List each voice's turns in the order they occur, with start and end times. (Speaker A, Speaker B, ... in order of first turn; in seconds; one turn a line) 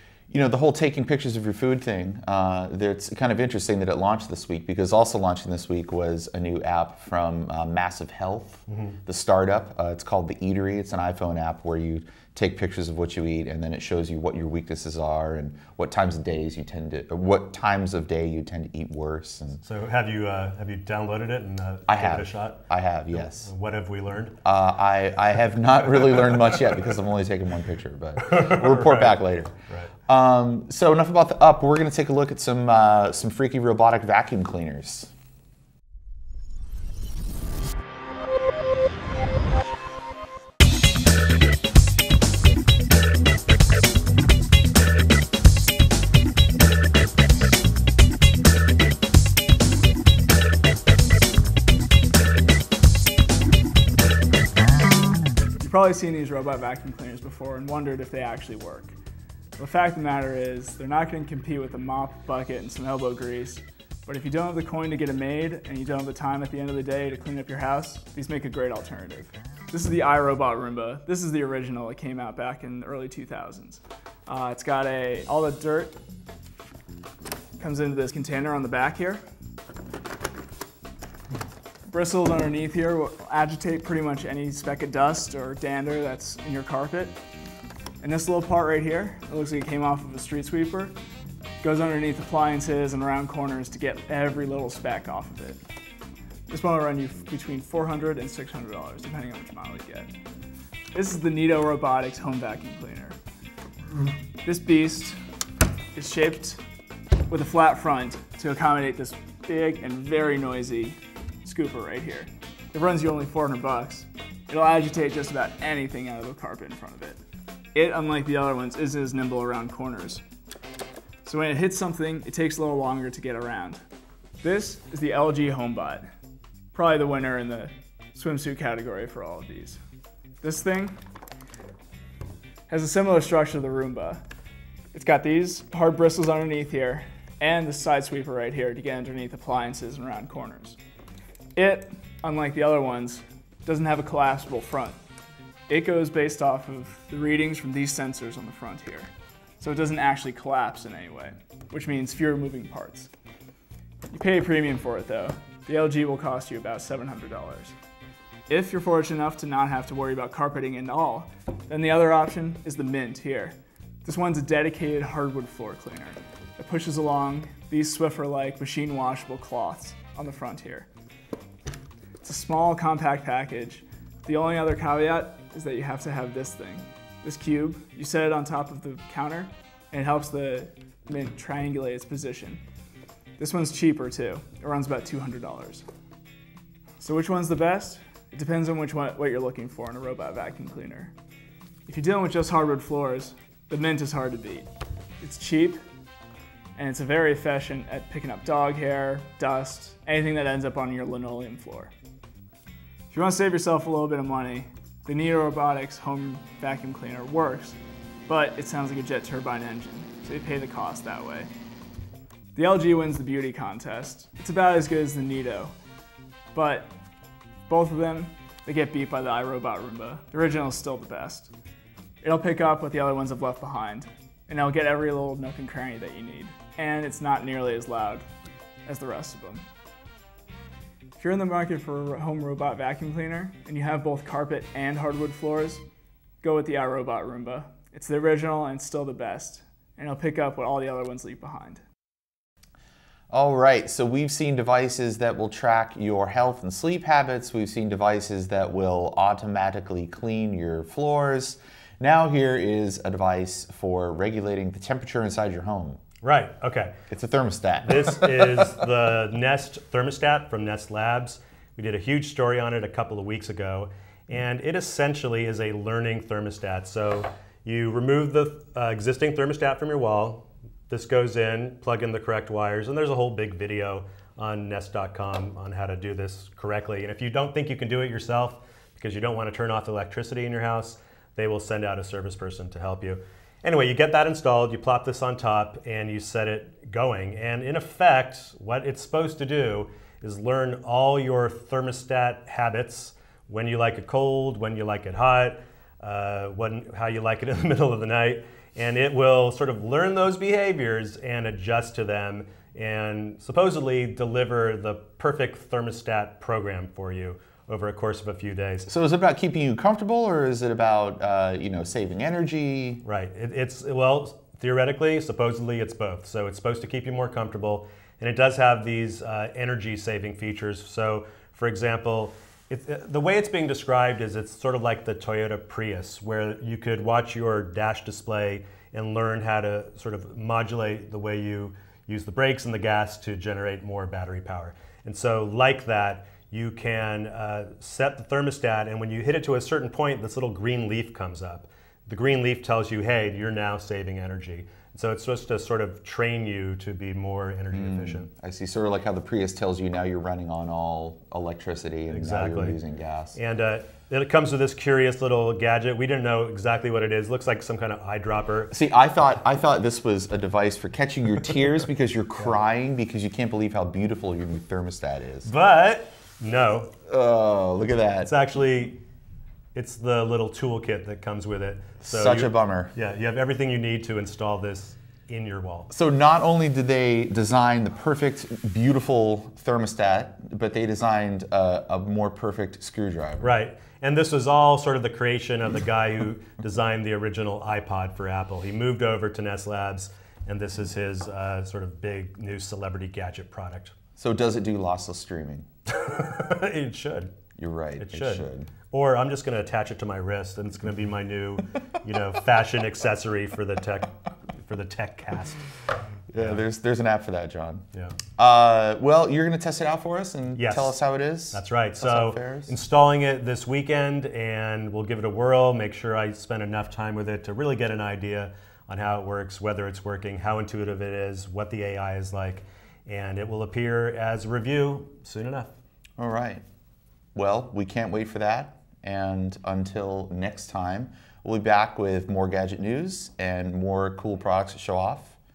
Speaker A: 0.3-19.6
Speaker B: 8.7-9.0
Speaker B: 19.6-24.4
Speaker A: 21.9-23.5
Speaker A: 24.4-29.5
Speaker B: 28.2-29.2
Speaker A: 30.1-35.1
Speaker C: 55.6-59.0
Speaker C: 59.6-76.0
Speaker C: 77.6-79.2
Speaker C: 81.9-87.2
Speaker C: 88.0-90.9
Speaker C: 91.6-95.6
Speaker C: 96.5-100.1
Speaker C: 100.9-103.2
Speaker C: 104.4-105.2
Speaker C: 106.0-106.6
Speaker C: 107.3-117.2
Speaker C: 117.7-120.2
Speaker C: 121.2-123.8
Speaker C: 124.4-126.1
Speaker C: 126.7-129.8
Speaker C: 130.4-131.0
Speaker C: 132.7-134.2
Speaker C: 134.9-140.8
Speaker C: 141.6-145.0
Speaker C: 145.7-153.1
Speaker C: 154.1-157.8
Speaker C: 158.5-170.9
Speaker C: 172.2-182.6
Speaker C: 183.4-185.8
Speaker C: 187.0-191.1
Speaker C: 191.9-194.7
Speaker C: 195.2-195.8
Speaker C: 196.8-201.9
Speaker C: 203.1-211.5
Speaker C: 212.6-215.7
Speaker C: 216.5-217.0
Speaker C: 217.7-221.5
Speaker C: 222.2-228.2
Speaker C: 228.8-229.7
Speaker C: 231.2-235.8
Speaker C: 236.4-241.8
Speaker A: 243.3-256.0
Speaker B: 256.2-256.9
Speaker A: 257.1-258.2
Speaker B: 257.8-308.9
Speaker A: 308.9-313.0
Speaker B: 313.1-348.3
Speaker A: 347.7-353.4
Speaker B: 352.1-352.8
Speaker B: 353.4-358.7
Speaker A: 358.7-365.5
Speaker B: 365.5-366.9
Speaker A: 367.1-368.3
Speaker B: 368.2-369.0
Speaker B: 369.8-375.9
Speaker A: 372.0-372.9
Speaker A: 375.9-383.6
Speaker B: 383.4-393.9
Speaker A: 394.2-395.7
Speaker B: 395.9-397.3
Speaker A: 397.6-398.7
Speaker B: 398.0-405.6
Speaker A: 406.3-407.8
Speaker A: 408.4-412.7
Speaker B: 410.6-411.0
Speaker B: 411.5-425.7
Speaker A: 426.2-426.6
Speaker A: 427.4-435.4